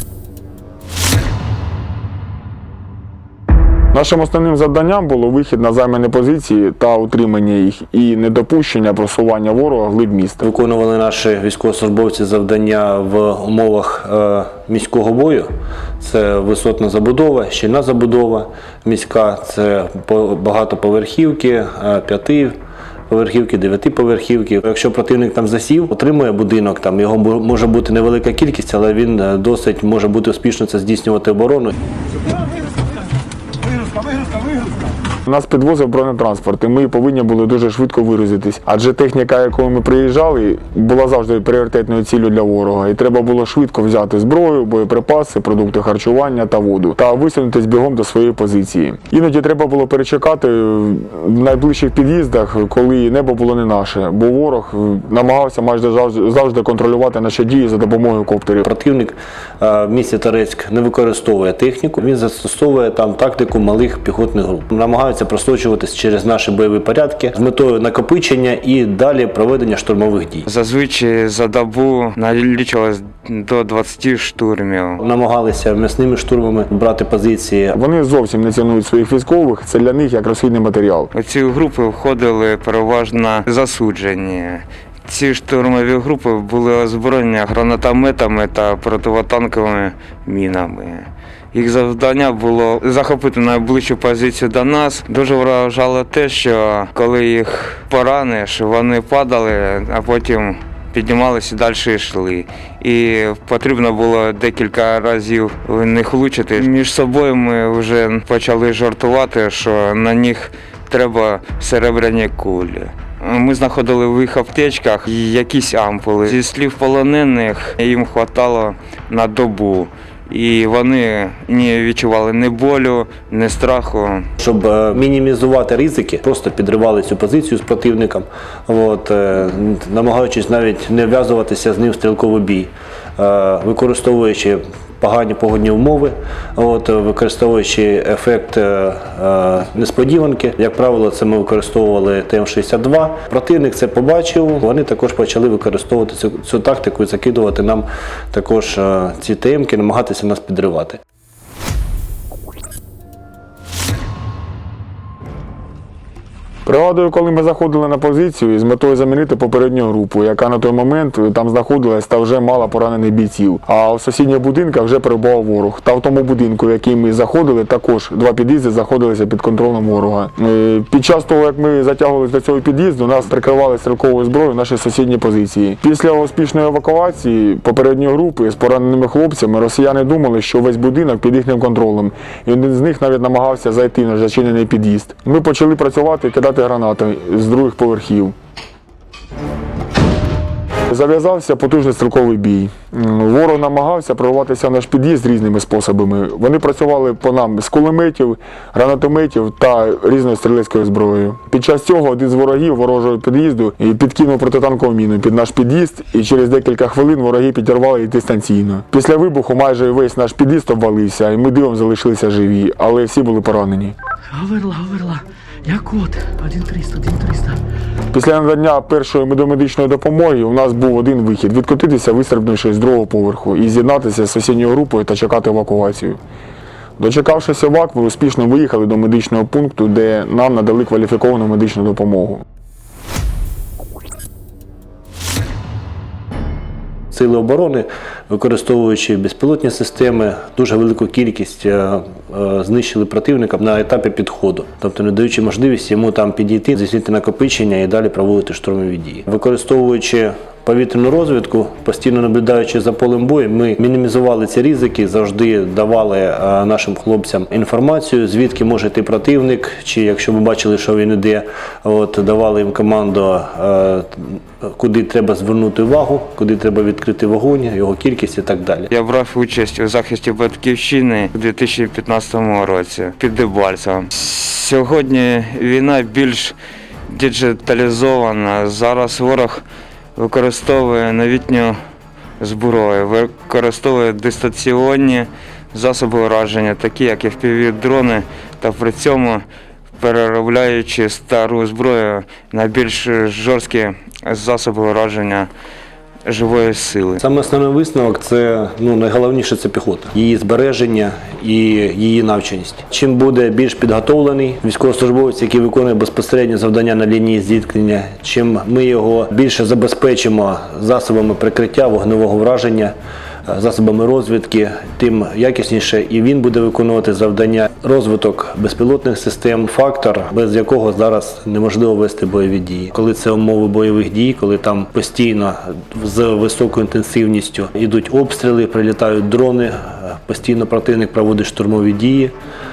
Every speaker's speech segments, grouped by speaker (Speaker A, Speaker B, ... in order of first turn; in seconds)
Speaker A: 3.9-10.4, 35.3-58.7, 77.7-81.1, 156.7-188.3, 190.9-213.9, 218.1-226.2, 227.0-232.4
Speaker B: 10.4-22.6, 23.1-31.7, 58.6-70.5, 75.0-77.8, 124.4-151.0, 237.1-268.9, 297.2-312.9, 313.5-332.3
Speaker C: 70.5-75.0, 81.1-124.3, 268.9-276.6, 277.1-279.6, 280.2-281.8, 282.4-289.4, 290.0-295.5, 296.2-297.2
Speaker D: 214.3-217.6